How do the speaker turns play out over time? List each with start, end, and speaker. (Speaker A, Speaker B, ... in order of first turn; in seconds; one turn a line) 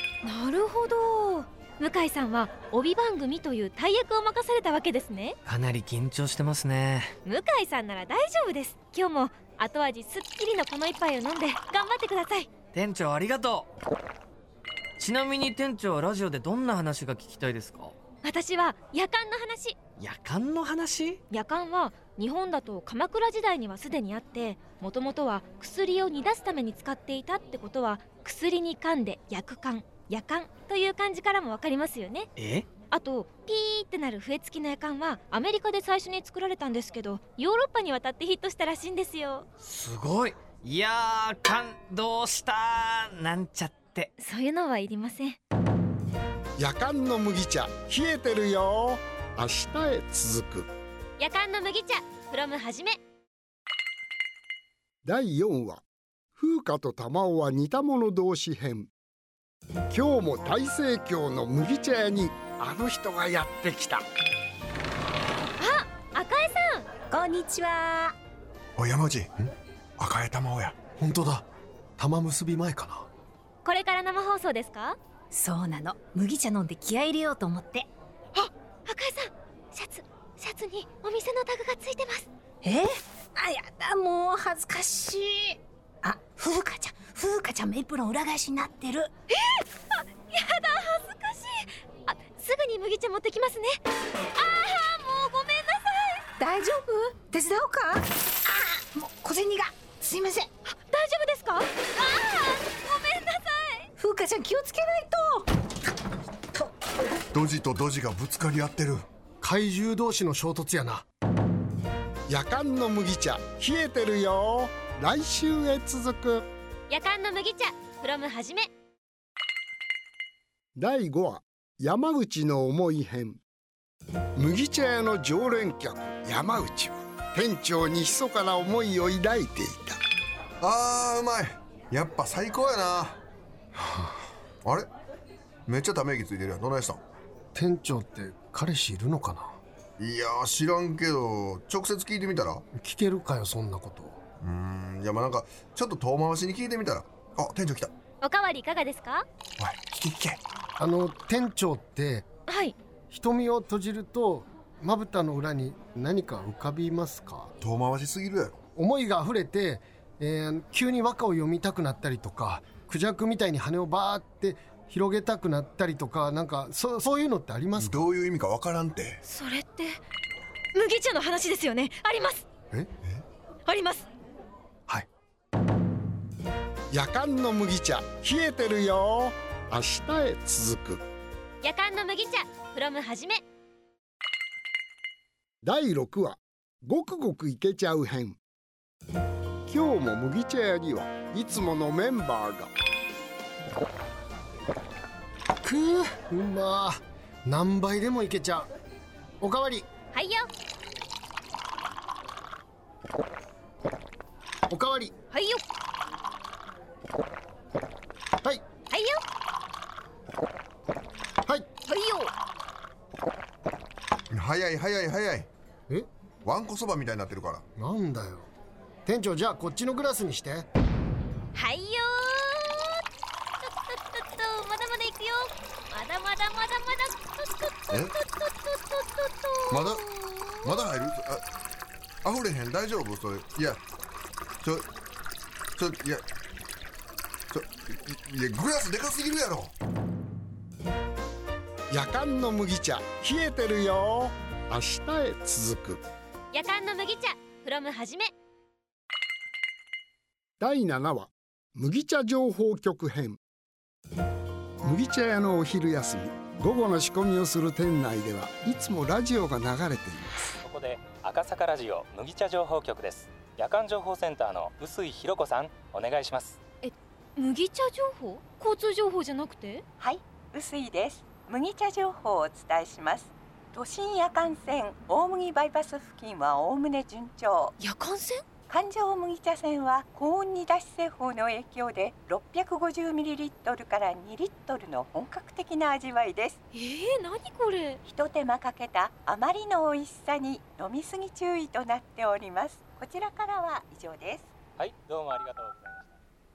Speaker A: 0.2-5.4
Speaker B: 5.4-7.1
Speaker A: 7.2-12.5
Speaker B: 12.7-13.7
Speaker B: 15.0-17.9
Speaker A: 18.2-19.8
Speaker B: 20.0-21.2
Speaker A: 21.3-32.3
Speaker B: 32.4-32.7
Speaker A: 32.9-39.5
Speaker B: 39.6-44.1
Speaker A: 44.2-45.4
Speaker C: 46.6-50.7
Speaker A: 51.2-53.0
Speaker C: 55.0-55.8
Speaker C: 56.4-58.9
Speaker C: 59.9-64.0
Speaker A: 65.6-66.8
Speaker D: 67.1-68.1
Speaker E: 68.8-70.8
Speaker F: 71.0-71.5
Speaker F: 72.0-73.1
Speaker A: 73.6-75.0
Speaker D: 75.3-77.9
Speaker A: 78.3-82.3
Speaker D: 82.6-89.1
Speaker A: 89.3-93.8
Speaker A: 94.3-96.2
Speaker D: 96.4-100.5
Speaker A: 100.7-103.9
Speaker D: 104.0-105.5
Speaker E: 107.3-109.0
Speaker F: 109.4-111.0
Speaker C: 112.3-116.5
Speaker A: 116.9-118.7
Speaker C: 120.8-123.4
Speaker C: 124.3-130.0
Speaker E: 130.6-133.2
Speaker F: 133.8-134.2
Speaker E: 135.7-137.0
Speaker F: 137.5-139.6
Speaker E: 140.0-142.6
Speaker F: 142.7-144.2
Speaker E: 144.4-147.9
Speaker A: 148.2-149.2
Speaker E: 149.6-150.4
Speaker F: 150.8-152.2
Speaker A: 152.5-152.7
Speaker F: 153.1-157.5
Speaker E: 157.6-158.5
Speaker F: 158.8-168.0
Speaker E: 167.8-169.2
Speaker A: 169.2-170.0
Speaker A: 170.7-172.4
Speaker A: 173.7-174.1
Speaker C: 176.9-181.0
Speaker A: 181.6-183.4
Speaker C: 185.6-188.4
Speaker C: 189.7-192.7
Speaker F: 195.6-198.7
Speaker F: 199.4-199.9
Speaker A: 200.1-200.5
Speaker F: 204.7-205.1
Speaker A: 205.3-205.6
Speaker A: 208.9-209.2
Speaker A: 211.9-212.3
Speaker E: 214.3-215.5
Speaker E: 216.4-217.6
Speaker F: 217.8-218.5
Speaker F: 219.1-220.7
Speaker A: 221.5-223.0
Speaker A: 223.6-230.8
Speaker E: 229.7-230.1
Speaker E: 230.6-231.4
Speaker E: 232.2-233.8
Speaker E: 234.6-234.9
Speaker E: 235.8-236.2
Speaker E: 237.5-239.7
Speaker C: 241.9-246.0
Speaker A: 246.5-248.3
Speaker C: 250.6-253.4
Speaker C: 254.8-260.4
Speaker G: 260.6-266.6
Speaker A: 266.8-269.8
Speaker H: 270.0-277.8
Speaker A: 277.8-278.4
Speaker H: 278.7-286.6
Speaker A: 286.7-288.0
Speaker H: 288.1-294.5
Speaker G: 294.8-296.2